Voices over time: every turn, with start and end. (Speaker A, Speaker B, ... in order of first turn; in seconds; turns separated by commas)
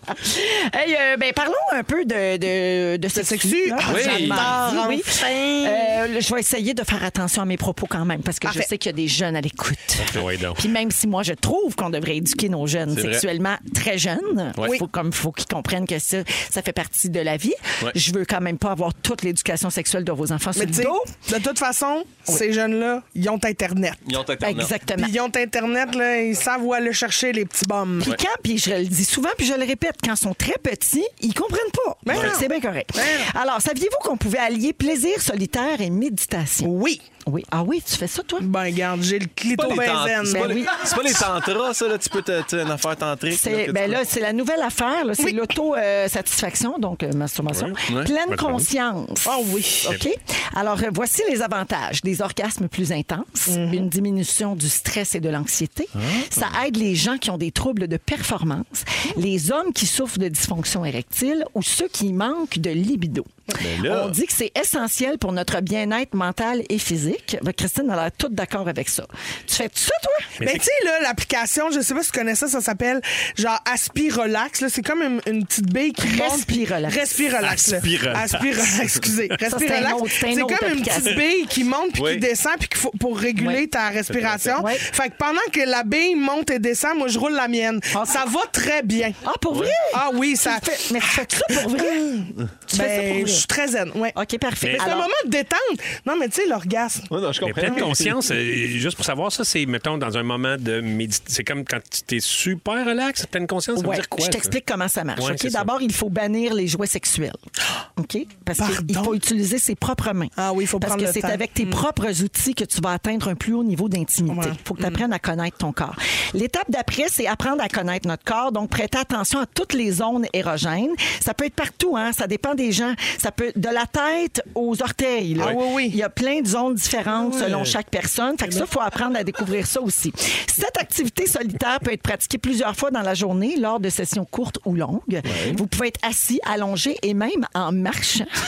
Speaker A: 0.2-21.1, Speaker B: 3.1-6.0, Speaker C: 3.9-4.6, Speaker D: 10.0-10.6, Speaker C: 12.9-13.2, Speaker B: 20.6-24.1, Speaker C: 24.1-24.7, Speaker A: 24.4-25.1, Speaker B: 24.9-28.2, Speaker A: 28.0-36.7, Speaker B: 32.0-33.3, Speaker B: 36.6-37.0, Speaker A: 37.2-38.5, Speaker B: 38.4-40.7, Speaker C: 39.5-44.0, Speaker A: 40.3-41.0, Speaker A: 43.3-70.3, Speaker C: 47.9-48.1, Speaker D: 48.3-48.7, Speaker B: 49.2-49.9, Speaker B: 53.5-53.9, Speaker C: 56.0-56.4, Speaker C: 63.6-64.2, Speaker D: 70.4-70.7, Speaker B: 70.4-89.2, Speaker A: 76.0-77.2, Speaker D: 77.5-78.4, Speaker A: 79.5-81.2, Speaker C: 82.0-82.3, Speaker D: 84.1-84.6, Speaker A: 84.6-84.8, Speaker A: 87.9-88.2, Speaker A: 89.2-92.1, Speaker B: 89.9-94.2, Speaker A: 92.7-93.5, Speaker A: 94.1-95.1, Speaker B: 94.8-97.1, Speaker C: 97.1-98.2, Speaker D: 97.4-104.6, Speaker A: 103.8-107.4, Speaker D: 105.2-105.7, Speaker A: 108.0-138.3, Speaker B: 108.6-109.2, Speaker B: 110.4-111.8, Speaker B: 114.3-115.0, Speaker B: 125.4-126.0, Speaker D: 127.1-127.8, Speaker C: 135.3-135.6